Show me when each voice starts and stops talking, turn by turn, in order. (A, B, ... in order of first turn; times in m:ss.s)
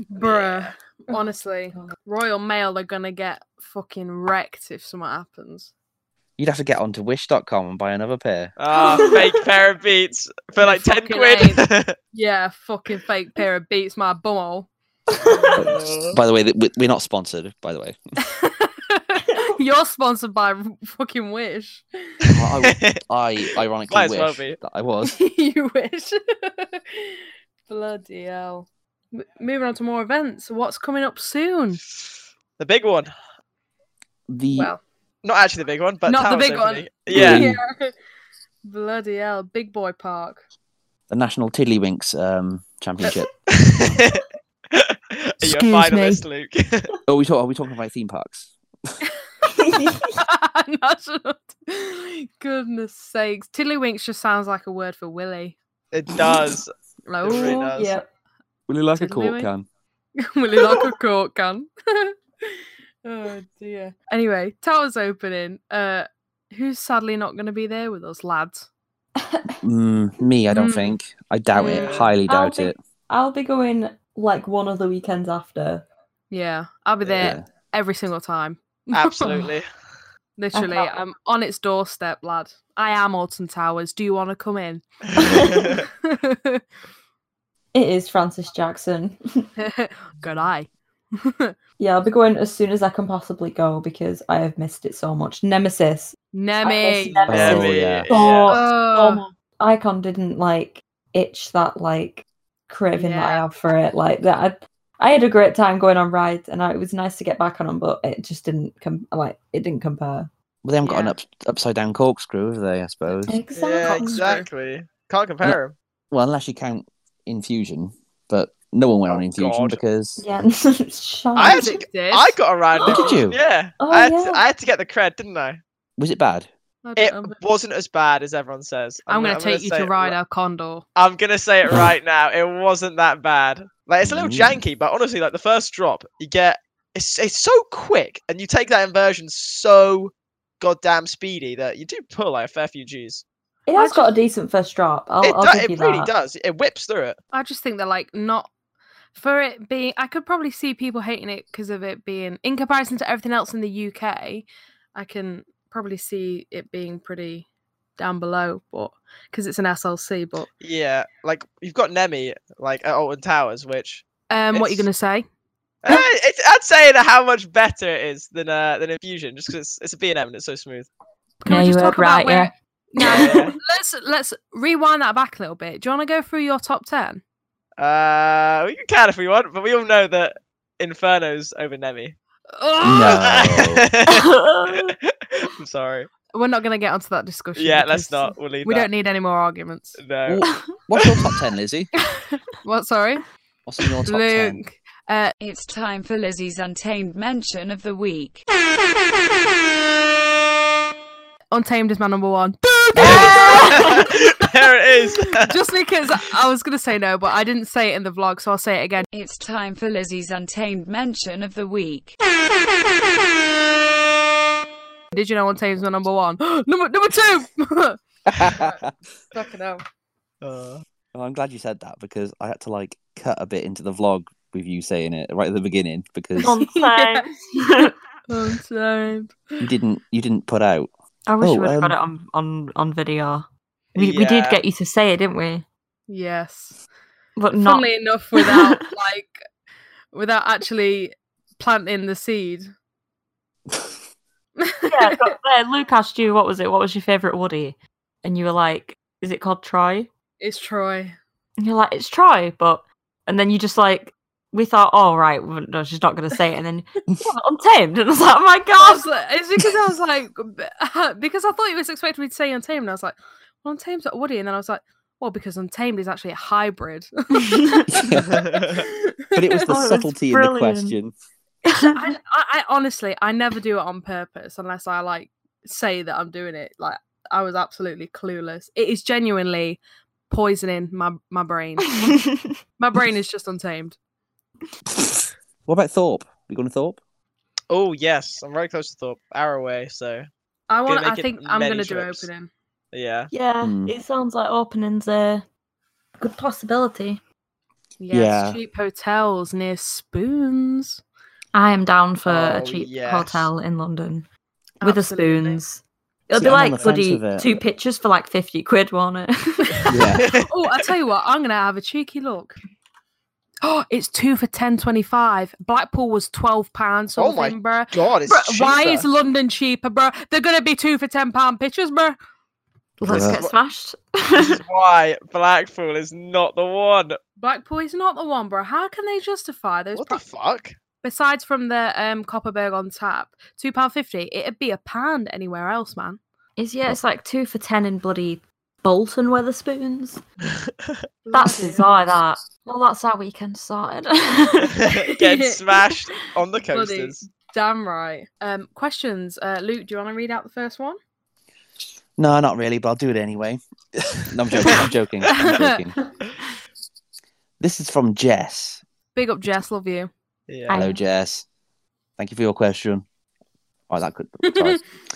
0:00.1-0:05.7 A
0:00.2-0:00.7 B
0:06.4-0:08.5 C
0:08.6-0:12.0 B
0:08.7-0:09.2 A
0:08.8-0:09.1 D
0:10.6-0:14.7 A
0:15.3-0:16.2 B
0:15.6-0:18.0 C
0:18.3-0:21.8 A
0:22.3-0:25.2 C
0:22.6-0:23.0 B
0:23.9-0:24.6 B
0:25.0-0:27.2 A
0:27.7-0:31.8 A
0:32.6-0:33.1 B
0:34.3-0:34.7 C
0:34.5-0:34.8 A
0:35.2-0:37.5 B
0:36.1-0:37.9 A
0:37.1-0:37.6 C
0:38.6-0:40.4 A
0:41.1-0:43.3 C
0:43.5-0:46.9 B
0:45.4-0:46.2 D
0:47.1-0:48.6 C
0:49.5-0:50.1 D
0:50.1-0:55.6 A
0:55.9-0:56.7 B
0:57.0-0:57.7 A
0:57.2-0:57.9 B
0:57.3-0:58.0 D
0:58.7-0:59.7 C
0:59.0-0:59.5 A
1:00.2-1:08.7 A
1:09.2-1:09.6 D
1:09.6-1:12.8 C
1:10.5-1:11.0 A
1:11.6-1:12.1 A
1:11.7-1:12.1 B
1:12.3-1:15.8 D
1:16.3-1:19.4 A
1:17.0-1:17.3 B
1:17.2-1:17.4 C
1:18.9-1:19.7 B
1:20.4-1:26.6 A
1:20.5-1:20.9 D
1:25.2-1:25.8 D
1:25.3-1:25.8 B
1:27.7-1:29.4 D
1:29.6-1:30.7 A
1:31.2-1:31.5 A
1:31.8-1:50.3 D
1:36.3-1:37.2 A
1:37.3-1:38.1 C
1:37.3-1:38.6 B
1:38.5-1:39.3 A
1:42.9-1:43.4 A
1:50.6-1:53.4 C
1:50.8-1:51.1 A
1:53.2-1:54.4 D
1:53.6-1:55.7 B
1:53.8-1:54.5 A
1:56.1-2:00.2 C
1:59.1-1:59.8 B
2:00.2-2:01.7 D
2:01.4-2:05.6 B
2:01.4-2:02.4 A
2:02.8-2:03.2 D
2:02.8-2:03.4 C
2:03.8-2:04.4 D
2:06.0-2:06.5 C
2:06.8-2:07.4 A
2:07.0-2:10.2 B
2:09.1-2:10.8 A
2:11.0-2:23.2 B
2:14.0-2:14.6 C
2:23.7-2:26.1 D
2:23.8-2:24.1 A
2:25.2-2:27.2 B
2:27.3-2:28.5 A
2:29.1-2:37.4 A
2:38.0-2:40.5 A
2:40.6-2:44.9 B
2:44.3-2:45.3 A
2:45.8-2:50.9 B
2:51.4-2:57.2 A
2:51.4-2:53.6 D
2:53.0-2:53.5 B
2:57.8-3:02.2 B
3:02.5-3:03.2 A
3:02.8-3:03.8 C
3:03.1-3:06.1 B
3:04.1-3:04.9 D
3:06.3-3:10.0 A
3:07.6-3:08.9 B
3:10.0-3:10.4 B
3:10.2-3:11.9 C
3:12.6-3:13.2 A
3:13.6-3:14.6 C
3:14.0-3:15.3 A
3:15.4-3:18.4 E
3:21.5-3:24.1 A
3:23.0-3:23.3 C
3:23.1-3:25.5 B
3:23.4-3:24.0 D
3:25.0-3:29.1 A
3:29.1-3:32.2 E
3:35.1-3:38.8 A
3:38.3-3:38.9 C
3:39.3-3:39.8 A
3:40.4-3:40.8 B
3:41.1-3:46.5 C
3:46.4-3:47.9 D
3:46.6-3:47.3 A
3:48.3-3:49.6 A
3:49.6-3:52.0 C
3:51.3-3:55.6 D
3:53.9-3:54.6 B
3:56.1-3:56.8 A
3:57.4-3:58.8 D
3:57.5-3:59.4 A
4:00.1-4:02.7 A
4:04.6-4:05.3 A
4:04.9-4:10.1 D
4:10.4-4:11.2 A
4:11.6-4:19.0 D
4:18.8-4:27.8 A
4:27.4-4:28.0 D
4:27.9-4:28.4 C
4:28.4-4:28.8 B
4:29.3-4:31.1 C
4:29.6-4:31.0 D
4:31.7-4:32.1 D
4:31.7-4:42.0 A
4:41.9-4:42.5 D
4:42.8-4:44.0 A
4:45.6-4:47.0 C
4:47.7-4:50.3 B
4:50.7-4:52.5 A
4:50.9-4:52.3 B
4:52.9-4:53.3 B
4:53.3-4:55.4 D
4:53.6-4:53.9 C
4:56.2-4:57.2 D
4:58.0-5:01.0 A
4:58.1-4:58.6 C
5:01.5-5:04.2 D
5:02.2-5:03.5 B
5:04.8-5:05.6 A
5:04.8-5:10.0 D
5:06.3-5:07.5 C
5:09.9-5:10.2 C
5:10.2-5:10.5 B
5:10.4-5:12.6 A
5:13.6-5:22.2 A
5:17.2-5:19.0 B
5:23.0-5:24.6 D
5:23.1-5:23.4 C
5:23.1-5:23.5 B
5:24.3-5:27.2 B
5:27.4-5:30.2 A
5:29.9-5:30.8 B
5:31.0-5:36.2 A
5:36.6-5:40.2 D
5:41.2-5:41.9 A
5:41.3-5:44.8 D
5:45.0-5:47.2 B
5:45.1-5:45.6 A
5:46.7-5:51.0 A
5:52.2-5:53.6 C
5:54.1-5:56.0 C
5:55.4-5:55.8 A
5:57.6-5:58.8 C
5:59.1-6:00.1 A
6:00.5-6:00.9 B
6:00.7-6:01.0 D
6:00.7-6:01.4 C
6:02.2-6:03.0 C
6:03.9-6:04.8 C
6:04.5-6:04.8 A